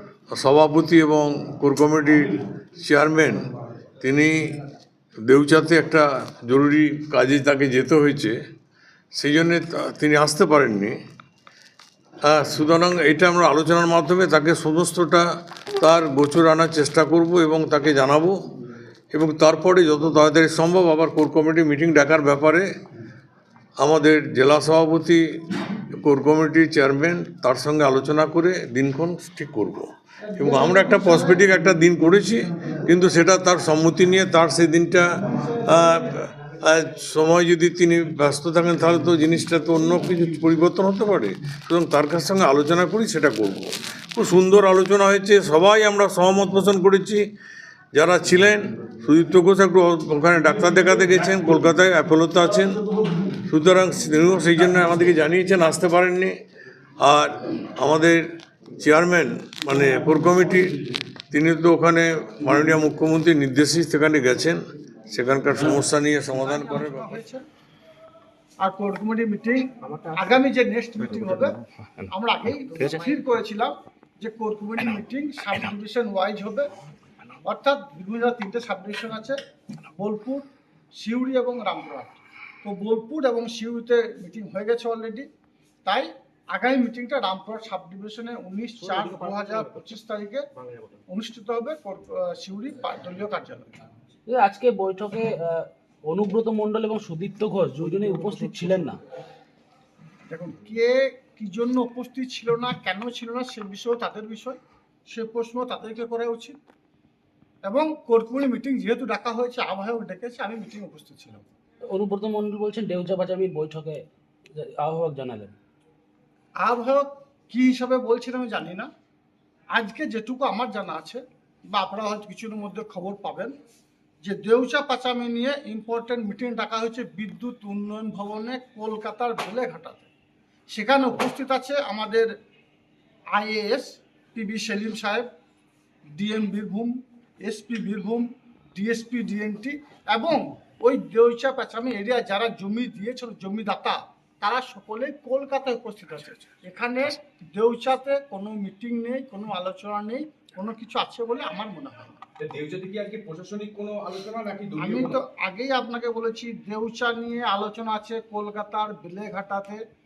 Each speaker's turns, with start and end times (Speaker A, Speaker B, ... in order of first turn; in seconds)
Speaker A: 0.3-3.5, 4.0-4.6, 5.3-8.4, 9.2-11.0, 12.2-15.3, 15.8-18.4, 19.1-22.7, 23.8-25.2, 25.8-47.3, 48.0-56.4, 57.0-58.2, 58.8-60.8, 61.3-67.2
Speaker B: 30.2-31.4, 66.3-67.4, 68.6-76.7, 77.4-79.4, 80.0-80.5, 81.0-85.3, 85.8-90.4, 91.1-93.7, 100.3-104.6, 105.1-106.6, 107.6-111.4, 116.6-118.9, 119.7-123.5, 124.2-130.1, 130.7-132.3, 133.3-135.3, 136.2-152.2, 154.8-159.8
Speaker C: 88.9-89.9, 90.6-91.0, 152.4-155.2
Speaker D: 94.3-99.0, 111.9-115.5